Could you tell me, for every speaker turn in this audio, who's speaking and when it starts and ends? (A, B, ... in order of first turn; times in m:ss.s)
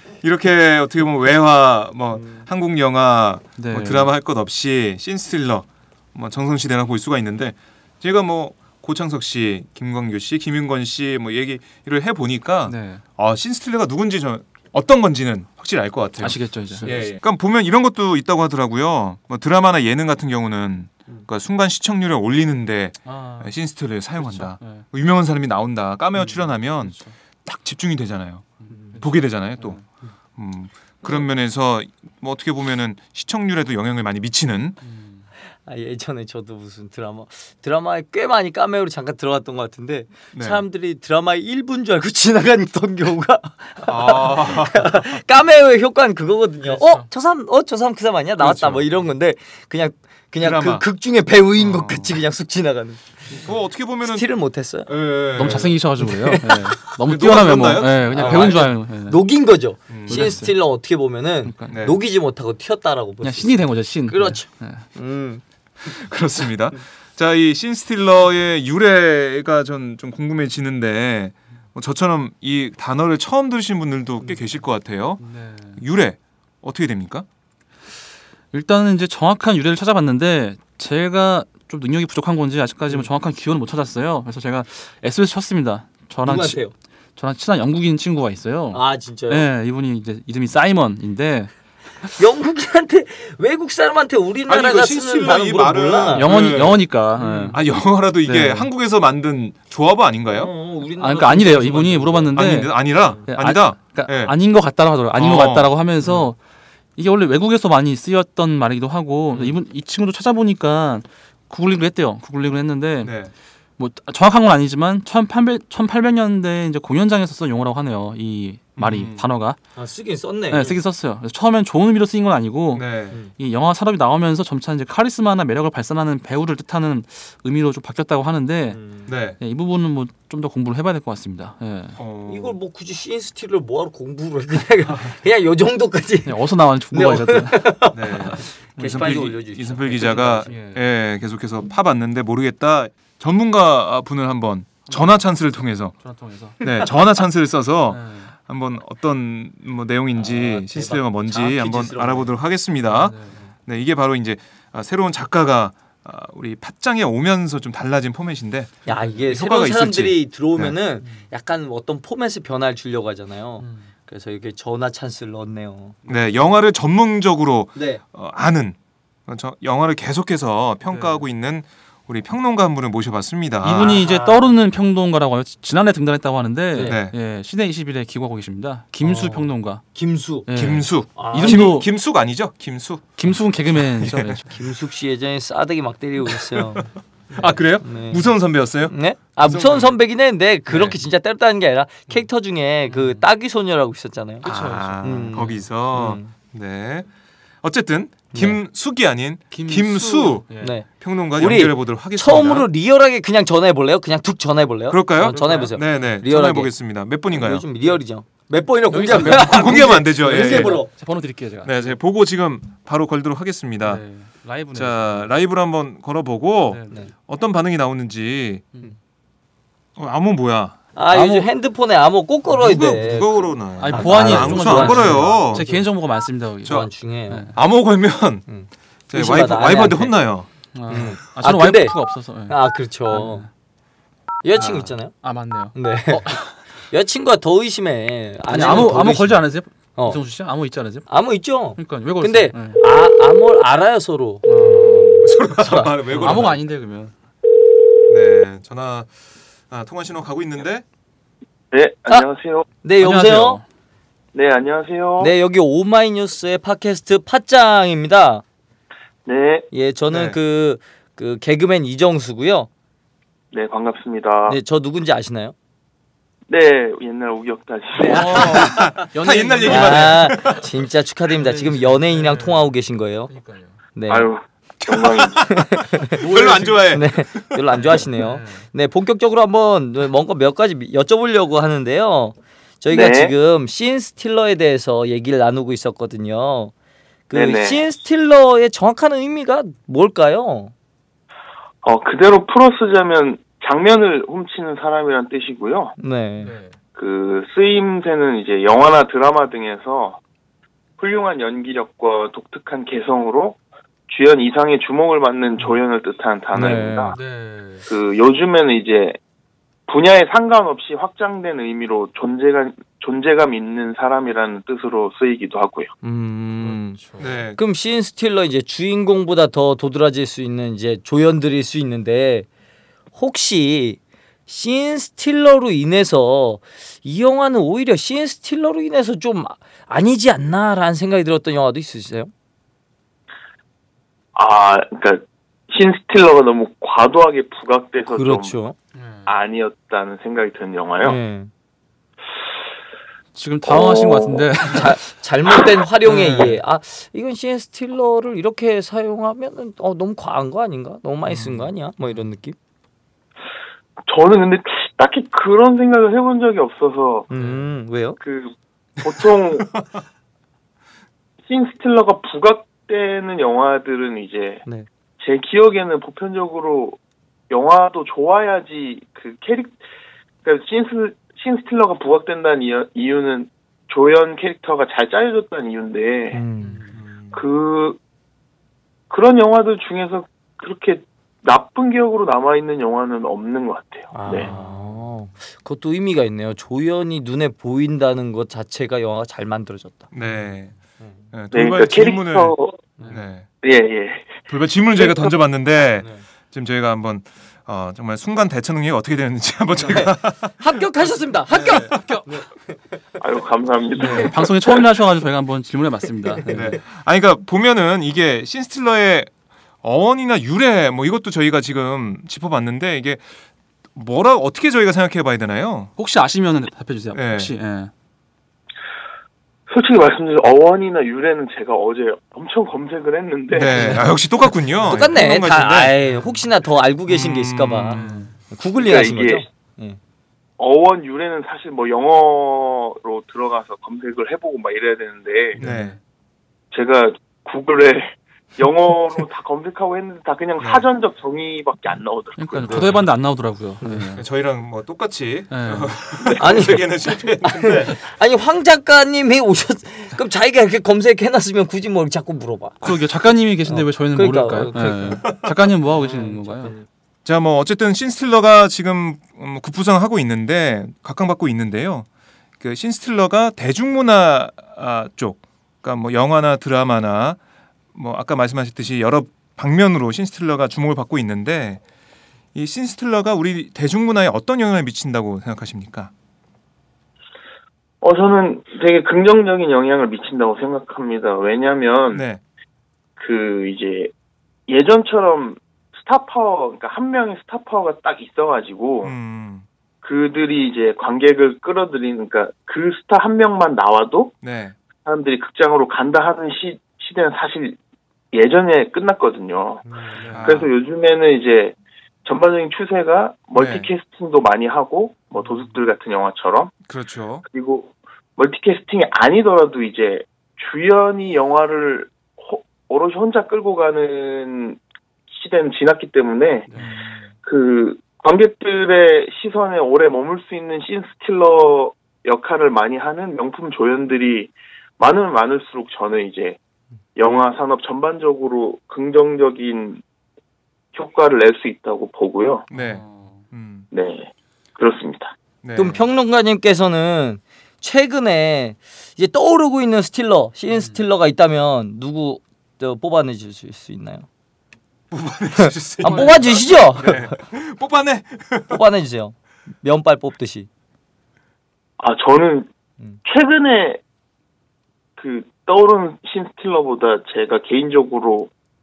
0:00.2-0:28.5 A
0:02.1-0:02.4 B
0:03.6-0:04.1 C
0:12.7-0:13.0 C
0:16.2-0:17.1 C
0:23.1-0:23.5 C
0:24.2-0:24.8 C
0:26.7-0:27.1 C
0:28.6-0:29.8 C
0:28.7-0:29.0 B
0:29.0-0:29.8 A
0:30.4-0:34.8 A
0:34.8-0:35.3 C
0:35.7-0:53.0 B
0:40.3-0:40.6 A
0:43.8-0:45.2 A
0:46.6-0:47.1 C
0:48.4-0:49.0 A
0:50.4-0:50.8 A
0:51.6-0:52.2 A
0:53.3-0:54.3 A
0:54.0-0:54.9 B
0:54.9-0:55.8 A
0:55.4-0:59.2 C
0:55.5-0:56.9 B
0:57.0-0:58.7 A
0:58.1-1:05.4 B
0:59.9-1:00.4 A
1:00.1-1:00.6 C
1:01.4-1:01.8 C
1:01.7-1:02.0 A
1:03.2-1:04.8 C
1:05.8-1:15.2 A
1:15.2-1:15.8 C
1:15.8-1:17.3 A
1:18.5-1:26.6 C
1:26.2-1:26.7 B
1:27.2-1:31.5 C
1:28.7-1:29.5 B
1:32.2-1:36.3 B
1:34.5-1:36.9 A
1:36.1-1:37.6 C
1:37.2-1:37.6 B
1:37.5-1:40.5 A
1:38.2-1:38.7 C
1:40.3-1:43.3 B
1:41.0-1:46.4 C
1:42.4-1:44.4 A
1:45.2-1:46.2 A
1:47.0-1:53.2 C
1:53.0-1:53.3 A
1:53.8-1:59.6 C
1:58.8-1:59.3 A
1:59.8-2:00.8 B
2:00.5-2:08.8 C
2:02.7-2:03.2 A
2:08.7-2:09.1 B
2:09.1-2:09.4 A
2:09.4-2:12.0 C
2:12.0-2:12.6 A
2:12.3-2:16.4 B
2:16.3-2:17.8 C
2:16.9-2:20.5 B
2:17.9-2:26.0 A
2:20.5-2:20.8 C
2:24.9-2:25.2 C
2:26.0-2:26.6 C
2:26.6-2:40.8 A
2:27.9-2:28.3 C
2:30.2-2:32.4 B
2:32.9-2:33.5 C
2:38.9-2:39.2 C
2:38.9-2:46.0 B
2:41.0-2:41.3 C
2:43.6-2:43.9 C
2:46.0-2:46.4 C
2:46.1-2:48.8 A
2:47.8-2:48.0 B
2:49.3-2:54.0 A
2:50.9-2:51.2 C
2:53.6-2:59.8 C
2:53.7-2:54.6 B
2:56.8-2:57.2 A
2:59.0-3:00.5 B
3:00.5-3:01.9 C
3:00.5-3:04.4 A
3:01.2-3:01.8 B
3:03.2-3:04.5 C
3:04.5-3:14.5 B
3:06.6-3:06.8 A
3:07.4-3:10.0 A
3:10.7-3:11.0 A
3:12.9-3:13.3 C
3:14.4-3:15.6 C
3:14.4-3:17.1 A
3:15.0-3:16.3 B
3:17.6-3:20.5 A
3:18.3-3:18.6 B
3:19.5-3:20.8 C
3:20.6-3:26.7 B
3:21.0-3:22.7 A
3:24.9-3:27.6 A
3:25.2-3:25.8 C
3:27.3-3:30.9 B
3:28.9-3:31.9 C
3:29.1-3:30.9 A
3:31.6-3:34.0 A
3:33.8-3:35.3 C
3:34.7-3:38.7 A
3:36.7-3:37.0 C
3:40.0-3:40.8 A
3:41.0-3:45.9 B
3:41.1-3:41.5 C
3:42.5-3:45.7 A
3:43.8-3:47.5 C
3:46.7-3:47.5 B
3:47.5-3:48.4 A
3:48.5-3:50.2 B
3:49.1-3:50.5 A
3:50.7-3:52.6 C
3:50.9-3:52.0 B
3:52.5-3:53.5 B
3:53.1-3:53.5 C
3:54.4-3:55.1 B
3:55.2-3:56.5 C
3:55.7-3:56.4 B
3:56.9-3:59.4 B
3:58.5-4:01.1 C
4:01.1-4:06.5 B
4:01.8-4:02.8 C
4:04.5-4:05.2 C
4:05.2-4:06.6 A
4:06.1-4:07.1 C
4:08.1-4:09.1 A
4:09.7-4:10.8 A
4:11.7-4:12.7 D
4:12.8-4:13.6 B
4:13.0-4:13.6 C
4:14.3-4:15.3 D
4:15.2-4:18.4 B
4:19.3-4:19.7 D
4:19.7-4:22.7 B
4:20.1-4:20.4 A
4:23.5-4:24.6 D
4:24.5-4:25.6 B
4:26.5-4:28.4 D
4:28.0-4:29.0 B
4:28.1-4:30.6 C
4:28.4-4:30.7 A
4:29.6-4:33.3 B
4:31.3-4:32.7 C
4:33.3-4:33.8 C
4:34.0-4:34.3 B
4:34.1-4:35.5 D
4:34.8-4:35.6 A
4:35.5-4:36.2 B
4:36.1-4:37.0 C
4:36.2-4:37.6 A
4:36.9-4:46.7 B
4:37.7-4:38.7 C
4:42.9-4:43.3 D
4:47.3-4:50.7 B
4:47.3-4:47.9 D
4:51.8-4:55.9 D
4:56.0-4:56.5 B
4:56.4-4:56.8 C
4:57.0-5:00.2 D
5:01.0-5:03.6 D
5:04.1-5:07.2 D
5:06.5-5:07.9 C
5:06.6-5:07.0 B
5:07.9-5:09.2 D
5:09.9-5:15.9 D
5:16.0-5:17.0 B
5:16.6-5:17.4 C
5:17.2-5:17.6 A
5:17.6-5:22.5 B
5:23.1-5:32.3 B
5:34.4-5:38.6 D
5:38.1-5:38.8 B
5:38.9-5:39.4 C
5:39.3-5:41.2 D
5:41.0-5:41.5 B
5:43.4-5:45.1 C
5:43.7-5:44.5 D
5:44.7-5:52.6 B
5:46.0-5:46.6 C
5:51.3-5:51.7 C
5:54.1-5:57.3 D
5:57.3-5:58.2 B
5:57.3-5:57.6 C
5:58.2-5:59.8 D
6:01.5-6:04.6 D
6:05.2-6:07.0 D
6:07.5-6:09.8 D
6:10.4-6:16.4 D
6:16.3-6:16.8 B
6:16.6-6:17.0 C
6:17.0-6:17.4 A
6:17.3-6:18.0 D
6:19.1-6:24.5 D
6:24.1-6:30.1 B
6:24.3-6:25.0 C
6:30.1-6:30.7 A
6:30.2-6:30.5 C
6:31.0-6:31.2 B
6:31.3-6:32.6 A
6:31.5-6:32.8 D
6:33.1-6:33.5 A
6:33.6-6:34.4 D
6:34.5-6:40.6 A
6:35.0-6:35.3 D
6:39.8-6:42.8 B
6:41.5-6:42.3 C
6:43.2-6:44.7 D
6:44.0-6:46.8 C
6:46.3-6:46.6 B
6:46.5-6:49.3 A
6:49.8-6:53.3 A
6:54.0-6:55.9 A
6:56.0-6:57.9 C
6:57.1-6:57.5 A
6:59.7-7:03.9 D
7:03.5-7:06.0 A
7:03.8-7:04.0 B
7:04.9-7:10.0 B
7:06.0-7:06.4 C
7:07.1-7:08.2 A
7:07.9-7:08.4 C
7:08.8-7:09.4 D
7:10.6-7:15.6 D
7:15.6-7:16.0 C
7:15.6-7:16.0 A
7:16.7-7:23.0 D
7:20.6-7:20.9 A
7:22.4-7:24.2 C
7:22.7-7:23.0 A
7:23.8-7:24.1 B
7:24.2-7:28.0 A
7:25.5-7:26.0 C
7:26.4-7:26.9 B
7:27.4-7:32.8 B
7:32.8-7:36.7 C
7:33.7-7:35.3 B
7:36.0-7:36.8 B
7:37.2-7:42.1 A
7:42.6-7:47.4 A
7:47.9-7:51.8 A
7:52.5-7:56.1 A
7:58.0-8:02.2 D
8:02.1-8:02.4 A
8:03.2-8:04.1 D
8:04.7-8:09.1 D
8:09.0-8:09.7 A
8:10.0-8:14.3 D
8:14.4-8:14.8 A
8:15.0-8:17.8 D
8:18.3-8:26.7 D
8:19.8-8:20.3 B
8:20.2-8:20.6 C
8:20.3-8:20.7 A
8:23.6-8:23.9 A
8:26.9-8:27.4 A
8:27.5-8:34.8 D
8:35.3-8:36.7 D
8:36.8-8:37.3 A
8:37.4-8:46.6 D
8:47.2-8:50.0 D
8:50.9-8:52.7 D
8:52.7-8:53.4 C
8:52.7-8:53.9 A
8:53.9-8:55.3 D
8:55.6-8:56.0 A
8:55.8-9:04.3 B
9:00.7-9:01.0 C
9:05.1-9:08.8 A
9:05.6-9:07.2 B
9:06.0-9:06.8 C
9:08.7-9:10.7 B
9:12.0-9:12.7 D
9:13.2-9:14.0 D
9:15.2-9:18.5 D